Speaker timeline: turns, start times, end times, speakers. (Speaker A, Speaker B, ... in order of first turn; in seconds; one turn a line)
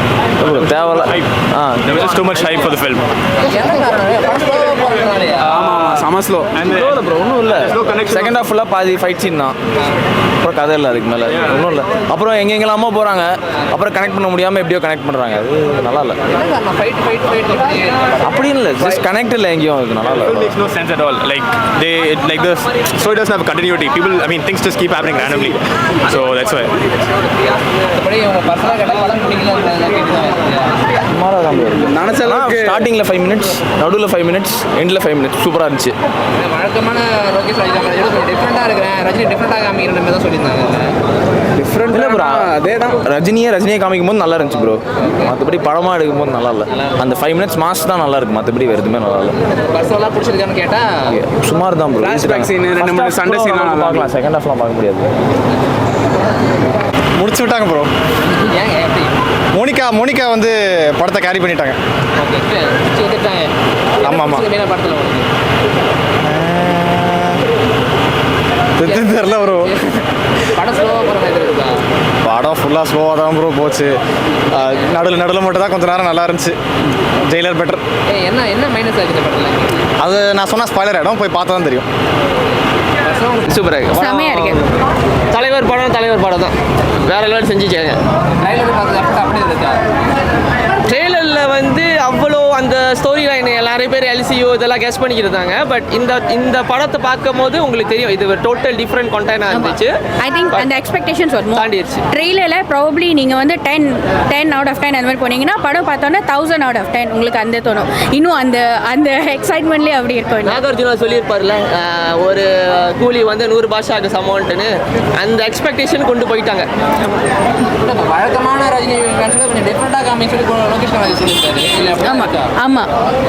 Speaker A: 0.4-2.8
Speaker B: 2.3-3.0
Speaker C: 3.4-5.7
Speaker D: 5.5-6.6
Speaker A: 6.5-9.6
Speaker A: 10.4-16.2
Speaker C: 16.3-18.2
Speaker A: 18.2-20.6
Speaker B: 20.6-26.7
Speaker C: 27.9-30.8
Speaker A: 31.1-36.0
Speaker D: 31.9-32.9
Speaker C: 36.3-41.0
Speaker D: 41.6-43.0
Speaker A: 41.8-49.4
Speaker C: 46.7-47.0
Speaker C: 49.6-51.0
Speaker A: 51.1-55.1
Speaker D: 52.0-54.1
Speaker E: 57.2-57.9
Speaker C: 58.3-59.2
Speaker E: 59.5-61.8
Speaker C: 62.2-65.3
Speaker A: 64.0-64.4
Speaker E: 66.2-67.0
Speaker A: 67.0-67.3
Speaker E: 68.8-69.7
Speaker C: 68.8-69.7
Speaker C: 70.5-71.8
Speaker E: 72.2-73.9
Speaker E: 74.5-76.5
Speaker E: 77.2-77.8
Speaker C: 78.1-79.8
Speaker E: 80.0-81.8
Speaker C: 83.0-83.5
Speaker F: 83.5-84.7
Speaker G: 84.0-84.6
Speaker F: 85.3-88.0
Speaker C: 88.3-89.8
Speaker F: 90.8-99.9
Speaker G: 99.5-110.6
Speaker F: 101.5-102.0
Speaker F: 110.4-116.7
Speaker C: 117.8-122.5
Speaker G: 122.0-122.9